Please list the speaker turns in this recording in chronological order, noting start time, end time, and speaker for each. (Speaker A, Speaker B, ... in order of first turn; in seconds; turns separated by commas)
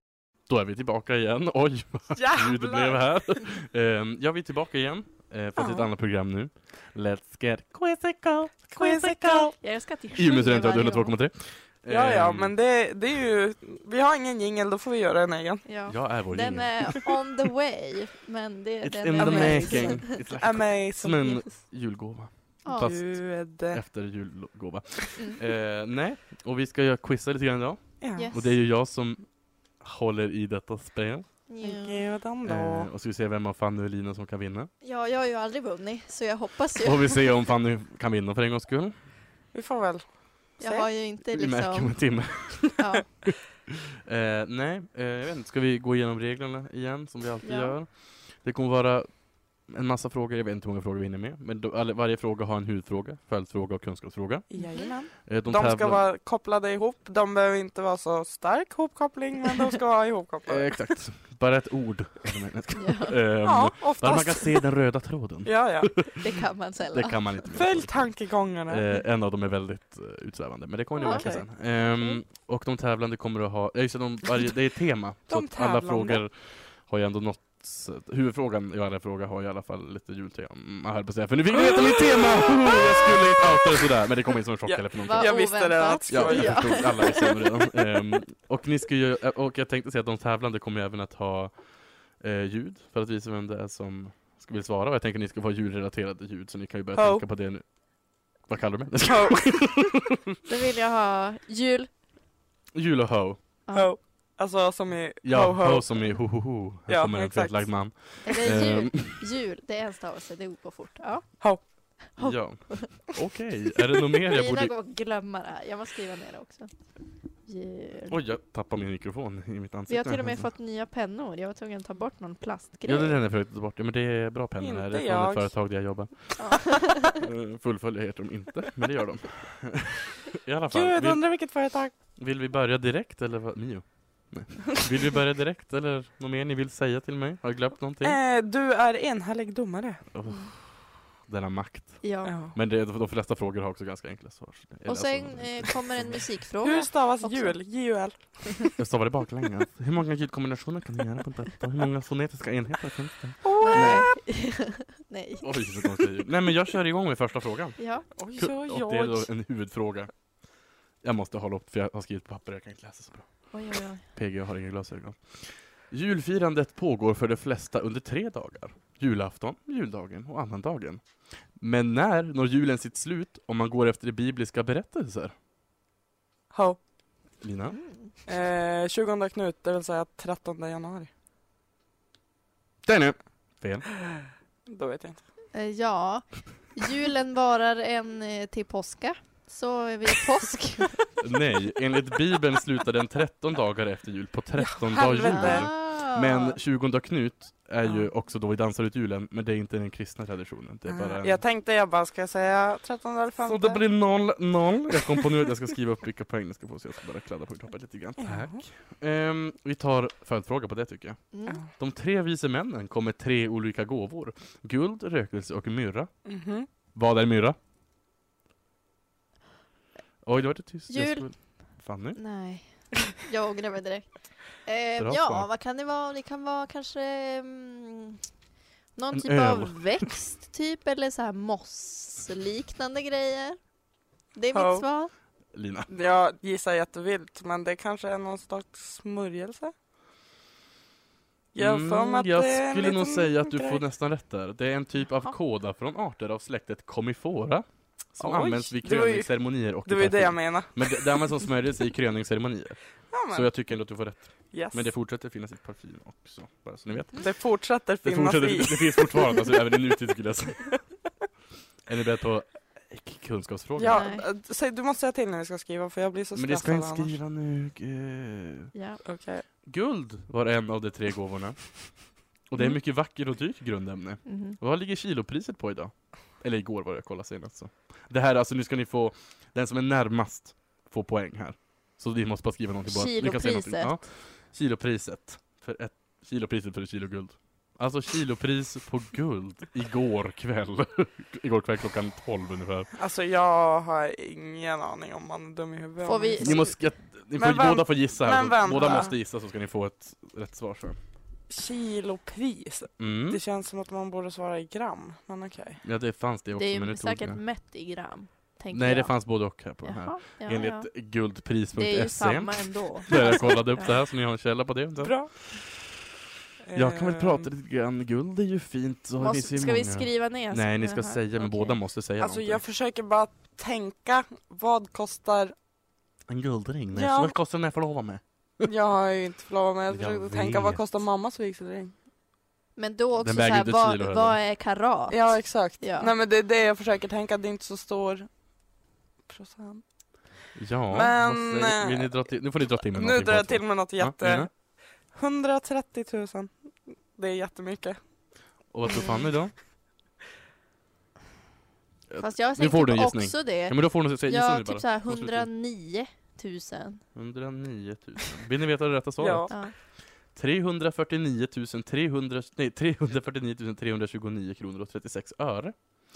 Speaker A: 0.5-9.1, Speaker B: 2.1-3.0, Speaker B: 5.6-5.9, Speaker B: 8.7-9.5, Speaker C: 8.8-11.1, Speaker A: 10.2-12.5, Speaker B: 11.9-15.7, Speaker C: 15.7-20.2, Speaker A: 15.9-17.0, Speaker A: 18.8-29.2, Speaker B: 19.2-21.5, Speaker C: 22.6-22.9, Speaker B: 22.7-23.8, Speaker B: 28.0-28.3, Speaker C: 28.1-28.5, Speaker A: 29.8-31.2, Speaker C: 31.5-32.0, Speaker B: 31.6-32.9, Speaker A: 32.5-34.7, Speaker C: 34.8-37.3, Speaker A: 36.8-38.9, Speaker B: 39.5-40.0, Speaker B: 40.6-40.9, Speaker C: 40.6-42.0, Speaker A: 41.3-49.1, Speaker C: 42.7-43.0, Speaker C: 47.4-47.8, Speaker A: 49.6-54.5, Speaker B: 54.5-61.0, Speaker A: 55.1-56.0, Speaker A: 60.5-66.3, Speaker C: 62.7-63.1, Speaker B: 63.4-64.6, Speaker B: 65.4-65.9, Speaker C: 66.2-67.3, Speaker A: 66.9-85.4, Speaker B: 67.5-68.8, Speaker C: 71.0-71.3, Speaker B: 71.0-71.5, Speaker B: 75.3-76.2, Speaker B: 81.5-83.8, Speaker B: 84.6-87.5, Speaker C: 85.0-87.1, Speaker A: 86.1-91.5, Speaker A: 92.2-97.6, Speaker B: 96.9-97.2, Speaker A: 98.4-100.2, Speaker B: 99.0-99.7, Speaker C: 100.5-101.9, Speaker A: 102.7-103.4, Speaker B: 103.7-106.1, Speaker A: 105.2-109.2, Speaker B: 106.9-107.8, Speaker C: 108.2-113.0, Speaker A: 112.2-114.7, Speaker C: 114.1-116.7, Speaker C: 117.5-118.2, Speaker A: 118.1-120.5, Speaker C: 119.9-123.2, Speaker A: 122.8-131.2, Speaker B: 124.6-125.5, Speaker C: 126.4-127.3, Speaker B: 130.7-131.9, Speaker A: 132.2-138.2, Speaker B: 138.0-140.0, Speaker A: 140.1-146.2, Speaker C: 142.0-142.3, Speaker B: 142.2-142.5, Speaker C: 144.8-147.6, Speaker B: 146.6-148.7, Speaker A: 148.8-154.1, Speaker B: 153.4-154.1, Speaker C: 153.6-155.5, Speaker A: 155.4-157.8, Speaker C: 157.8-158.0, Speaker B: 158.2-159.3, Speaker A: 158.3-160.1, Speaker A: 161.0-163.3, Speaker C: 163.5-164.1, Speaker A: 164.1-171.0, Speaker A: 171.6-175.3, Speaker B: 176.5-176.8, Speaker A: 177.4-177.8, Speaker C: 177.7-178.1, Speaker B: 178.3-181.1, Speaker A: 182.8-183.9, Speaker B: 184.7-185.2, Speaker C: 185.5-191.0, Speaker A: 191.2-201.4, Speaker B: 194.6-195.7, Speaker C: 195.3-196.6, Speaker B: 200.9-203.8, Speaker A: 203.4-216.1, Speaker B: 208.2-208.6, Speaker C: 211.3-211.6, Speaker B: 216.2-216.7, Speaker A: 216.9-217.6, Speaker A: 220.2-222.2, Speaker C: 220.9-221.3, Speaker C: 222.2-224.1, Speaker C: 224.6-228.2, Speaker A: 225.0-225.5, Speaker C: 228.9-233.6, Speaker A: 229.1-230.1, Speaker C: 234.3-235.1, Speaker B: 234.5-234.8, Speaker A: 235.5-235.9, Speaker B: 235.9-239.7, Speaker B: 241.5-243.8, Speaker A: 241.6-252.8, Speaker B: 248.2-249.3, Speaker B: 249.8-251.3, Speaker B: 253.1-253.5, Speaker A: 253.3-257.2, Speaker B: 254.5-254.8, Speaker B: 257.2-259.5, Speaker A: 258.0-260.8, Speaker A: 261.9-264.1, Speaker B: 263.8-267.1, Speaker C: 263.9-264.2, Speaker A: 266.4-268.7, Speaker C: 268.7-269.0, Speaker B: 269.1-269.4, Speaker A: 269.7-271.9, Speaker A: 272.5-292.9, Speaker C: 274.2-274.6, Speaker C: 282.9-283.9, Speaker B: 293.0-296.6, Speaker C: 296.0-296.7, Speaker A: 296.4-301.0, Speaker B: 297.4-299.1, Speaker B: 301.5-305.8, Speaker A: 303.0-303.4, Speaker A: 305.8-307.4, Speaker C: 306.5-309.1, Speaker A: 308.7-315.8, Speaker C: 309.8-310.9, Speaker C: 311.8-313.9, Speaker B: 313.1-313.4, Speaker B: 315.0-315.3, Speaker B: 316.7-317.5, Speaker A: 316.7-322.6, Speaker C: 319.2-321.7, Speaker B: 322.2-325.5, Speaker A: 326.3-328.7, Speaker B: 326.9-327.4, Speaker B: 328.7-331.9, Speaker A: 329.9-330.8, Speaker C: 332.8-336.1, Speaker A: 333.2-334.4, Speaker B: 335.1-338.3, Speaker B: 339.3-339.8, Speaker A: 340.6-344.5, Speaker B: 340.9-342.1, Speaker B: 342.9-344.5, Speaker B: 345.1-346.5, Speaker B: 347.1-348.0, Speaker A: 348.7-349.5, Speaker C: 348.9-349.2, Speaker B: 348.9-349.2, Speaker A: 352.1-355.5, Speaker C: 352.2-357.0, Speaker A: 357.1-359.6, Speaker B: 359.2-359.5, Speaker A: 360.3-365.8